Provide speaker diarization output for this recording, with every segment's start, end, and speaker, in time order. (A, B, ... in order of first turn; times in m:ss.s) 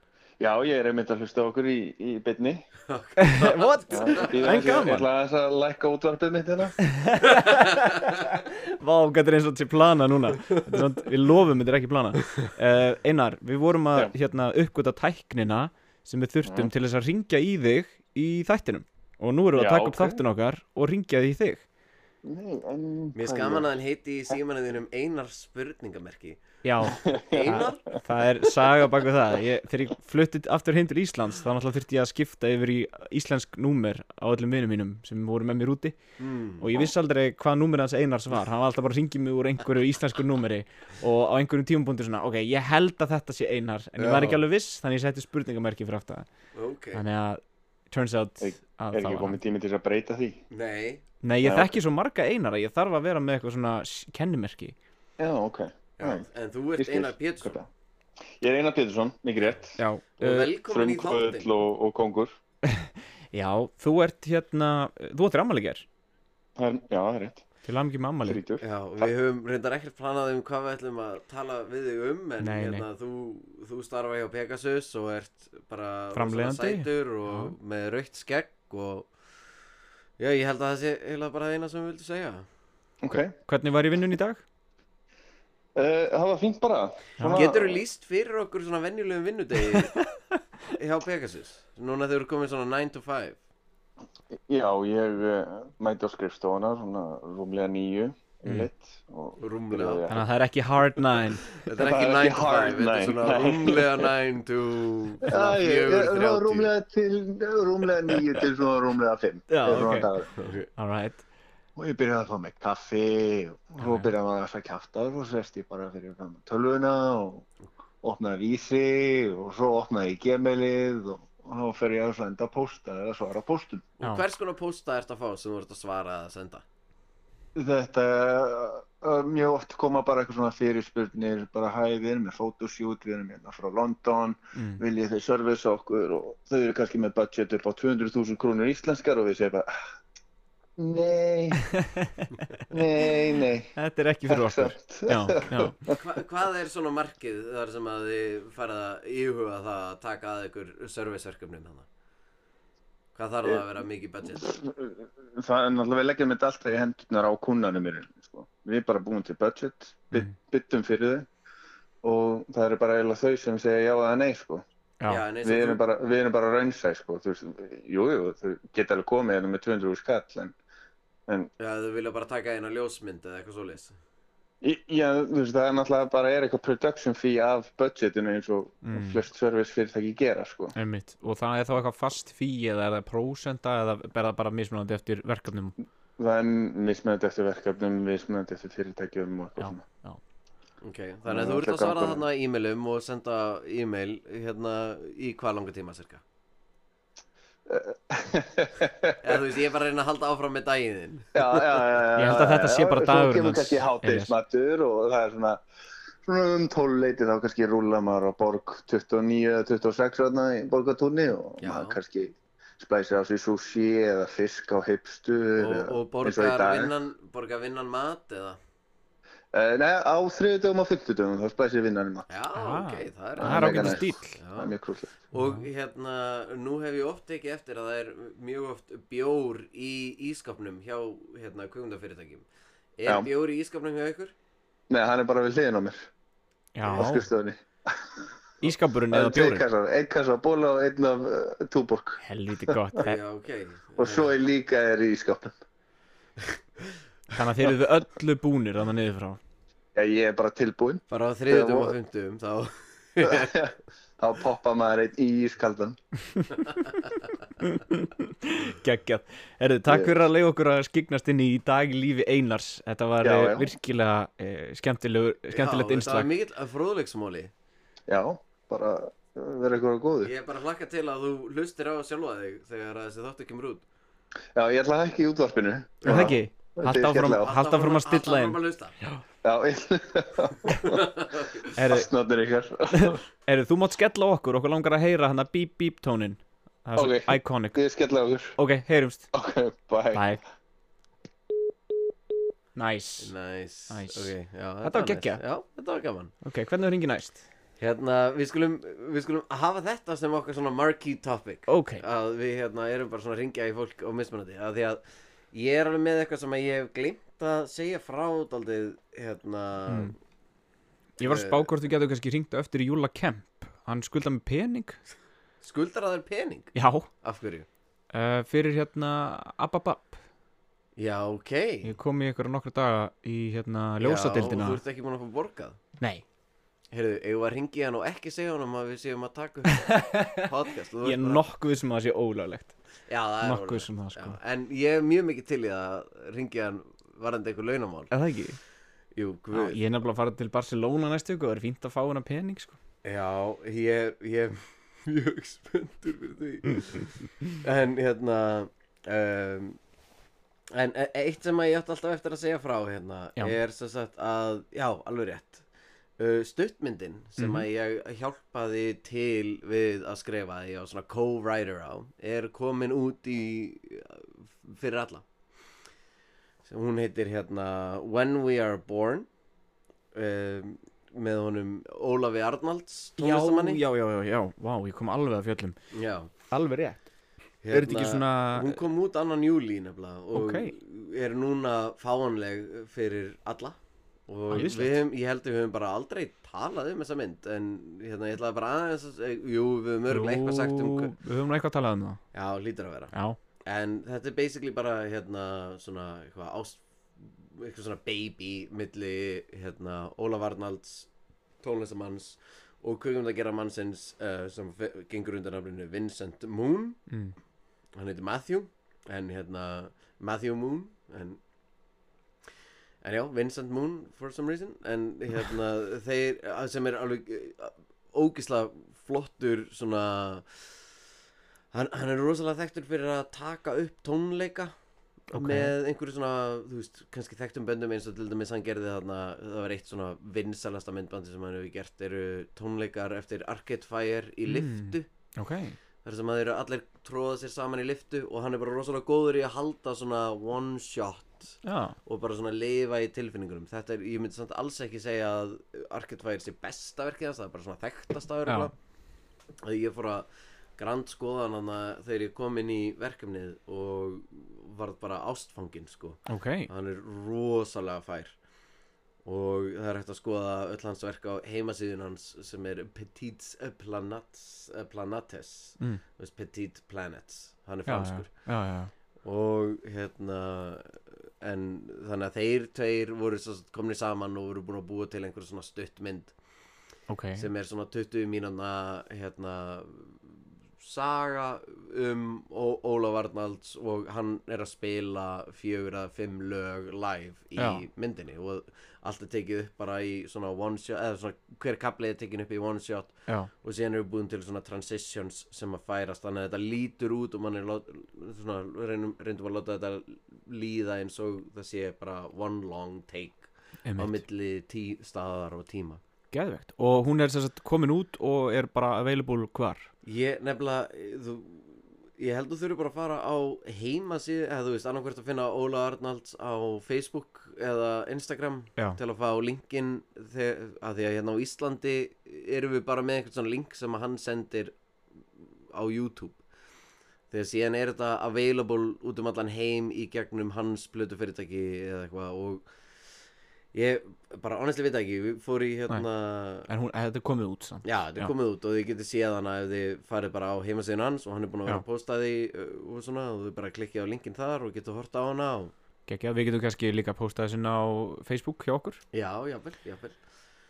0:00.4-0:02.6 A
0:02.9-0:04.4 B
0:03.2-0:05.0 C
0:03.9-0:06.8 A
0:06.9-0:21.6 C
0:16.4-0:16.7 A
0:19.5-0:20.2 A
0:22.2-0:23.7 A
0:23.2-0:28.0 B
0:26.6-0:36.0 C
0:26.8-0:27.7 A
0:36.2-0:36.6 B
0:36.6-0:46.3 C
0:44.0-0:44.4 B
0:46.5-0:47.0 B
0:46.9-0:49.4 C
0:48.4-0:50.4 A
0:50.5-0:51.0 B
0:51.2-0:54.8 C
0:51.4-0:51.7 A
0:55.2-0:56.3 A
0:56.0-0:57.6 B
0:56.8-0:57.7 A
0:58.4-0:59.8 A
0:59.8-1:00.5 C
1:00.2-1:01.5 B
1:00.7-1:02.3 A
1:02.7-1:05.8 C
1:06.6-1:07.4 A
1:07.6-1:08.4 C
1:08.2-1:09.1 A
1:08.6-1:19.1 B
1:12.4-1:12.8 C
1:16.1-1:17.5 C
1:20.2-1:22.4 B
1:23.0-1:23.3 A
1:23.1-1:24.4 C
1:25.8-1:27.8 A
1:27.2-1:27.4 C
1:27.3-1:30.0 B
1:30.7-1:33.4 B
1:34.3-1:40.2 A
1:39.4-1:40.2 B
1:40.1-1:41.6 C
1:41.6-1:46.7 B
1:41.8-1:44.1 A
1:45.2-1:50.3 A
1:49.5-1:50.1 C
1:50.4-1:50.7 B
1:50.8-1:51.2 C
1:51.8-1:57.5 A
1:53.8-1:54.1 C
1:58.0-2:03.8 A
2:04.0-2:06.6 B
2:07.5-2:19.7 A
2:14.5-2:14.8 C
2:20.8-2:21.6 A
2:21.8-2:22.3 C
2:22.7-2:23.7 A
2:23.7-2:25.8 C
2:24.3-2:26.0 A
2:25.9-2:31.8 B
2:33.2-2:34.6 B
2:34.4-2:41.3 A
2:42.0-2:44.6 A
2:45.1-2:45.8 B
2:45.4-2:50.6 A
2:51.6-2:54.0 B
2:54.6-3:00.7 A
2:58.8-2:59.2 C
3:00.7-3:05.8 C
3:06.2-3:09.8 A
3:09.6-3:10.2 C
3:10.8-3:16.2 B
3:11.2-3:12.2 A
3:17.7-3:19.4 A
3:19.2-3:21.9 B
3:21.3-3:25.6 A
3:22.2-3:24.3 C
3:26.2-3:36.9 A
3:31.6-3:32.0 B
3:35.6-3:38.6 B
3:39.5-3:42.2 A
3:42.3-3:44.8 B
3:42.5-3:44.4 C
3:43.4-3:45.2 A
3:45.3-3:52.4 B
3:45.3-3:45.6 C
3:53.0-3:54.3 B
3:54.9-3:56.1 A
3:56.7-3:57.3 C
3:56.8-3:58.2 A
3:58.6-3:59.6 C
3:59.1-4:02.7 A
4:02.2-4:03.2 C
4:03.0-4:04.3 B
4:04.0-4:05.5 A
4:07.3-4:09.4 C
4:09.9-4:11.9 A
4:11.1-4:13.5 B
4:13.2-4:16.0 A
4:17.6-4:26.3 C
4:19.9-4:20.2 A
4:23.2-4:23.7 A
4:25.5-4:27.5 B
4:28.1-4:30.3 A
4:30.2-4:33.8 B
4:34.5-4:37.5 A
4:36.0-4:36.3 B
4:36.0-4:39.2 C
4:37.3-4:39.0 B
4:39.4-4:41.0 A
4:40.8-4:41.7 B
4:41.7-4:42.1 C
4:41.8-4:43.2 A
4:42.9-4:47.8 C
4:47.0-4:48.6 A
4:48.6-4:49.3 C
4:49.3-4:50.2 A
4:50.1-4:50.4 C
4:52.7-4:53.3 C
4:53.2-4:56.3 B
4:53.9-4:54.3 C
4:54.8-4:55.4 C
4:56.4-4:57.4 C
4:57.8-5:10.1 B
5:01.7-5:02.0 C
5:09.9-5:10.1 C
5:11.2-5:15.0 C
5:11.2-5:11.7 B
5:15.6-5:17.7 B
5:16.7-5:17.1 C
5:18.1-5:20.2 C
5:21.0-5:21.9 B
5:21.8-5:24.8 C
5:24.0-5:25.8 B
5:26.9-5:31.4 B
5:29.8-5:30.5 C
5:31.0-5:32.7 C
5:33.1-5:38.1 B
5:33.4-5:34.4 C
5:38.1-5:38.6 C
5:39.1-5:39.8 B
5:39.5-5:42.8 C
5:43.0-5:49.8 B
5:50.7-5:55.6 B
5:56.2-6:05.2 B
5:57.4-5:57.6 C
6:06.6-6:09.3 B
6:10.1-6:13.8 B
6:13.2-6:15.8 C
6:15.9-6:16.3 B
6:16.5-6:17.1 C
6:17.6-6:23.8 B
6:17.7-6:18.8 C
6:20.3-6:20.7 C
6:24.3-6:31.1 B
6:24.5-6:25.0 C
6:30.1-6:32.2 C
6:32.3-6:33.1 B
6:33.1-6:33.4 C
6:33.6-6:41.1 B
6:41.6-6:47.1 B
6:47.1-6:47.3 C
6:48.0-6:51.4 B
6:53.0-7:00.8 B
7:01.7-7:04.7 B
7:05.3-7:15.0 B
7:05.3-7:05.7 C
7:14.4-7:15.8 C
7:16.0-7:28.7 B
7:21.6-7:22.0 C
7:29.6-7:30.2 B
7:30.8-7:38.4 B
7:36.3-7:36.7 C
7:39.2-7:48.5 B
7:47.9-7:48.9 C
7:49.2-7:56.3 B
7:57.1-7:57.5 C
7:57.4-8:00.3 B
8:00.8-8:26.0 B
8:07.6-8:07.8 C
8:23.8-8:24.2 C
8:26.3-8:29.9 C
8:30.0-8:44.7 B
8:45.7-8:46.4 B
8:47.3-8:52.7 B
8:53.7-8:56.7 B
8:56.6-8:58.3 C
8:57.8-9:05.7 B
9:06.1-9:09.0 C
9:09.1-9:10.2 B